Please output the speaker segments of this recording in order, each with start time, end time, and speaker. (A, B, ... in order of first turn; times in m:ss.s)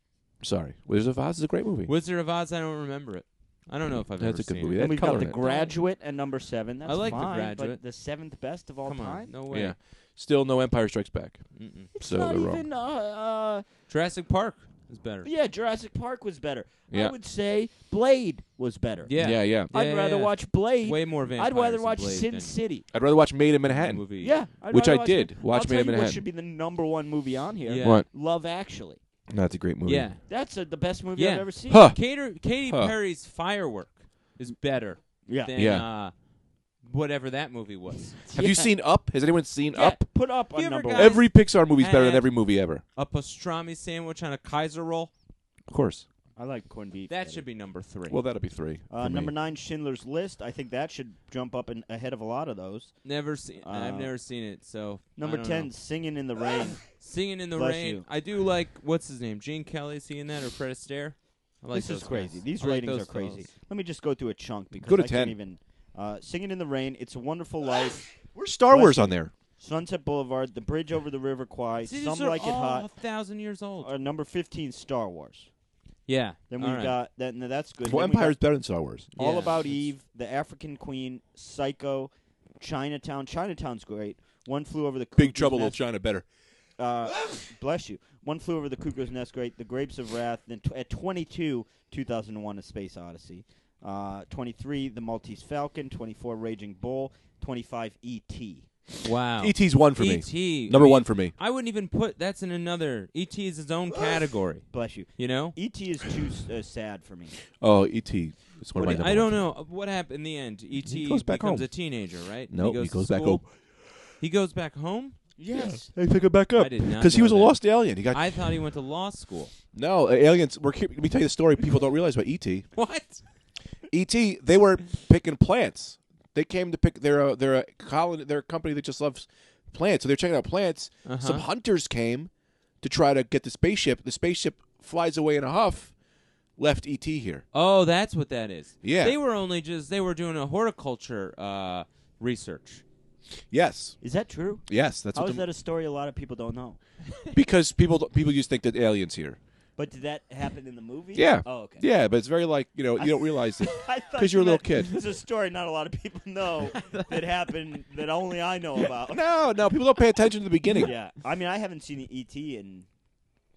0:00.4-0:01.9 A
0:01.8-0:05.8 B
0:04.2-0:05.4 A
0:04.8-0:09.3 C
0:06.8-0:07.8 B
0:08.8-0:09.7 B
0:09.5-0:12.6 A
0:11.5-0:11.9 B
0:11.9-0:13.6 C
0:13.9-0:15.3 B
0:15.2-0:22.9 C
0:16.9-0:17.2 A
0:19.0-0:22.6 B
0:19.2-0:19.7 A
0:22.9-0:24.0 A
0:23.6-0:24.4 B
0:24.2-0:29.0 C
0:24.6-0:26.2 A
0:27.6-0:28.0 B
0:27.8-0:28.1 A
0:29.3-0:30.1 A
0:29.8-0:30.4 B
0:30.3-0:31.9 C
0:31.1-0:38.2 B
0:31.7-0:32.9 A
0:35.2-0:35.5 C
0:35.5-0:35.9 A
0:38.2-0:38.7 C
0:38.3-0:40.0 A
0:39.7-0:41.2 C
0:40.5-0:45.1 B
0:40.9-0:42.8 A
0:45.7-0:46.0 A
0:46.4-0:47.4 C
0:47.1-0:48.2 B
0:48.1-0:49.3 A
0:48.9-0:54.2 C
0:53.0-0:55.7 B
0:55.2-0:58.1 C
0:56.9-1:03.5 B
1:01.7-1:12.9 C
1:04.7-1:05.4 A
1:08.3-1:09.3 A
1:11.8-1:13.9 B
1:13.8-1:15.5 C
1:16.0-1:17.0 B
1:16.5-1:26.2 C
1:17.8-1:19.1 A
1:19.1-1:19.9 B
1:25.2-1:26.3 A
1:26.8-1:38.8 C
1:39.0-1:45.6 B
1:39.4-1:41.3 A
1:44.7-1:47.4 C
1:47.6-1:49.4 A
1:48.7-1:55.2 B
1:50.8-1:53.5 A
1:55.4-1:55.9 C
1:55.6-1:58.6 A
1:56.5-1:59.5 B
1:59.7-2:02.7 A
2:02.7-2:03.3 B
2:03.9-2:16.0 A
2:11.0-2:11.4 B
2:16.5-2:17.4 A
2:17.5-2:22.8 B
2:18.8-2:19.2 A
2:23.5-2:24.0 A
2:24.0-2:26.8 C
2:24.7-2:25.4 A
2:27.3-2:29.4 A
2:29.8-2:31.8 C
2:31.1-2:35.0 A
2:33.0-2:39.4 C
2:36.7-2:37.8 B
2:39.1-2:40.9 A
2:40.6-2:40.9 B
2:40.8-2:42.9 C